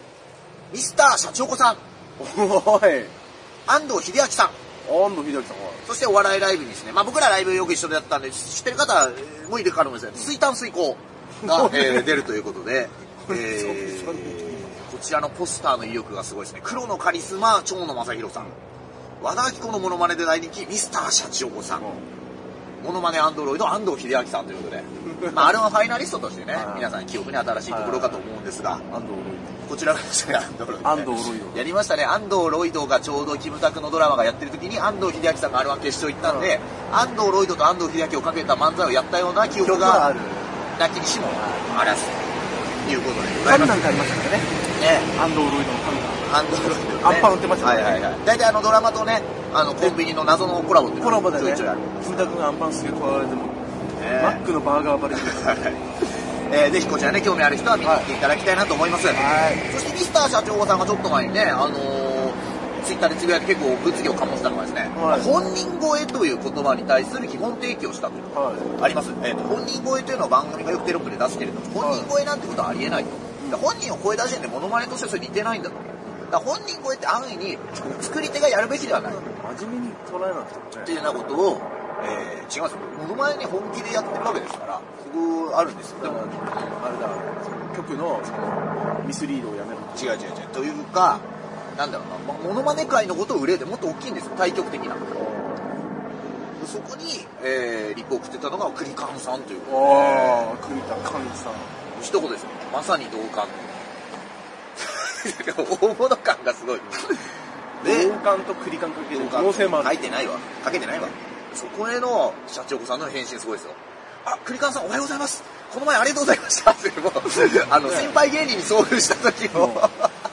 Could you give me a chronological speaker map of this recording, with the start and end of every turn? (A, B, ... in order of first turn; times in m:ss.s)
0:00.7-0:01.8 A
0:02.2-0:03.1 B
0:03.7-0:04.6 A
0:04.8-0:05.8 B
0:05.8-0:18.5 A
0:11.4-0:12.2 B
0:13.3-0:14.7 B
0:19.2-0:21.8 A
0:21.8-0:22.0 B
0:22.8-0:28.8 A
0:25.1-0:25.5 B
0:26.5-0:26.9 B
0:27.7-0:28.2 B
0:28.8-0:29.6 B
0:29.6-0:40.2 A
0:30.8-0:31.7 B
0:36.2-0:36.6 B
0:39.5-0:40.8 B
0:40.7-0:43.8 A
0:41.3-0:42.0 B
0:43.4-0:44.6 B
0:44.8-0:45.1 A
0:45.1-0:46.3 B
0:46.2-0:52.4 A
0:47.0-0:48.0 B
0:51.0-0:53.6 B
0:54.0-0:54.4 A
0:54.2-0:55.6 B
0:55.1-0:55.8 A
0:56.5-1:19.2 A
0:57.8-0:58.1 B
0:59.1-0:59.6 B
1:04.9-1:05.3 B
1:08.3-1:08.8 B
1:11.8-1:12.1 B
1:13.4-1:13.7 B
1:19.0-1:21.0 B
1:20.8-1:26.2 A
1:26.0-1:30.2 B
1:30.0-1:35.3 A
1:35.1-1:35.9 B
1:36.5-1:40.5 A
1:39.6-1:41.9 B
1:41.9-1:43.8 A
1:44.8-1:48.1 A
1:47.8-1:50.1 B
1:49.1-2:00.1 A
1:57.7-1:58.2 B
1:59.5-1:59.9 B